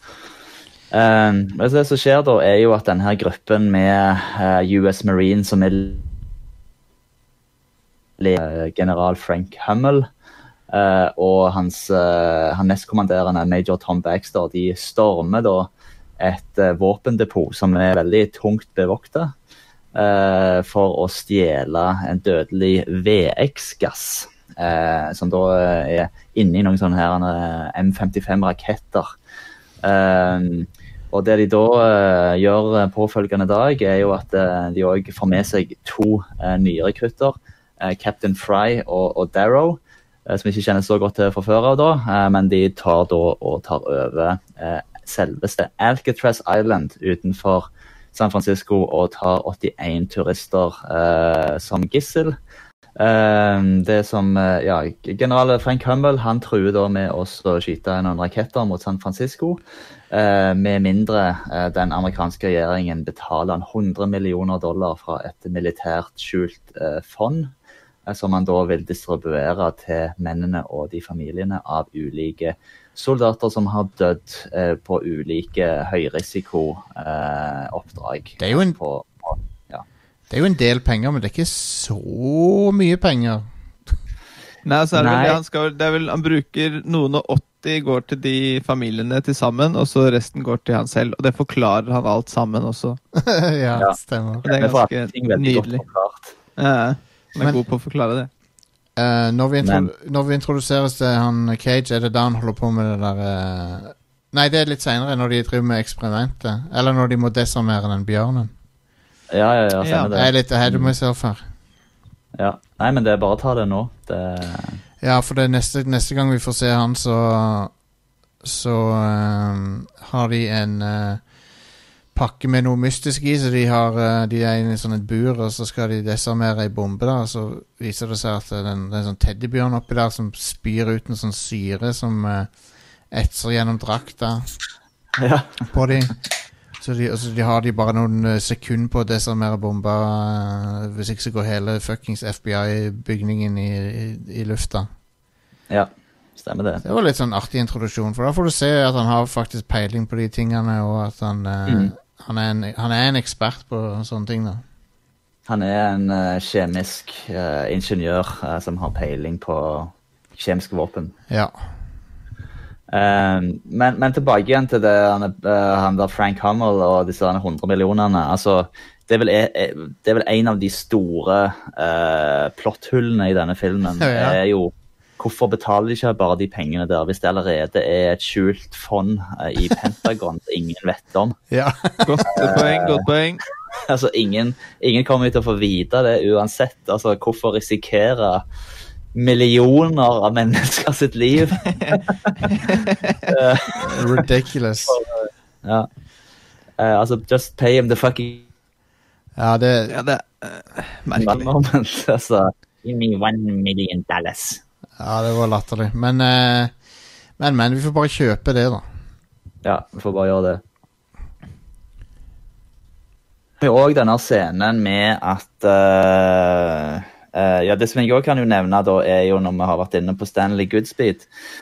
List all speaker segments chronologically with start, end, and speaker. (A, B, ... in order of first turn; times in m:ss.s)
0:00.9-0:06.1 A
0:08.2-0:10.1 A
0:10.7-0:19.3 A
0:20.0-0:29.1 A
0:29.8-0:52.4 A
0:53.0-1:07.5 A
1:08.1-1:19.8 A
1:18.4-1:18.8 B
1:20.3-1:23.5 B
1:24.6-1:33.0 C
1:25.0-1:25.4 A
1:33.2-1:34.4 B
1:33.8-1:36.3 A
1:34.4-1:35.8 C
1:36.6-1:38.3 C
1:39.0-1:48.5 B
1:39.6-1:39.9 A
1:49.3-1:50.9 A
1:49.8-1:50.1 C
1:50.1-1:51.4 B
1:52.4-1:54.8 A
1:55.0-1:57.7 B
1:58.4-2:01.2 B
2:02.1-2:12.5 B
2:13.1-2:14.5 B
2:15.2-2:15.7 A
2:15.7-2:16.2 B
2:16.8-2:24.9 B
2:25.7-2:26.8 A
2:26.8-2:34.6 B
2:31.7-2:31.9 A
2:35.5-2:41.1 A
2:41.3-2:41.6 B
2:42.9-3:01.4 A
2:54.0-2:54.4 B
3:01.5-3:02.2 B
3:02.0-3:03.4 C
3:02.3-3:03.1 A
3:03.7-3:08.4 A
3:09.1-3:12.0 A
3:11.8-3:13.1 C
3:13.3-3:14.2 A
3:13.8-3:15.0 B
3:14.9-3:15.9 A
3:16.8-3:18.5 A
3:19.4-3:20.0 B
3:19.9-3:21.5 C
3:21.2-3:24.6 A
3:25.0-3:26.8 B
3:27.4-3:28.9 B
3:29.6-3:30.6 A
3:33.6-3:41.3 A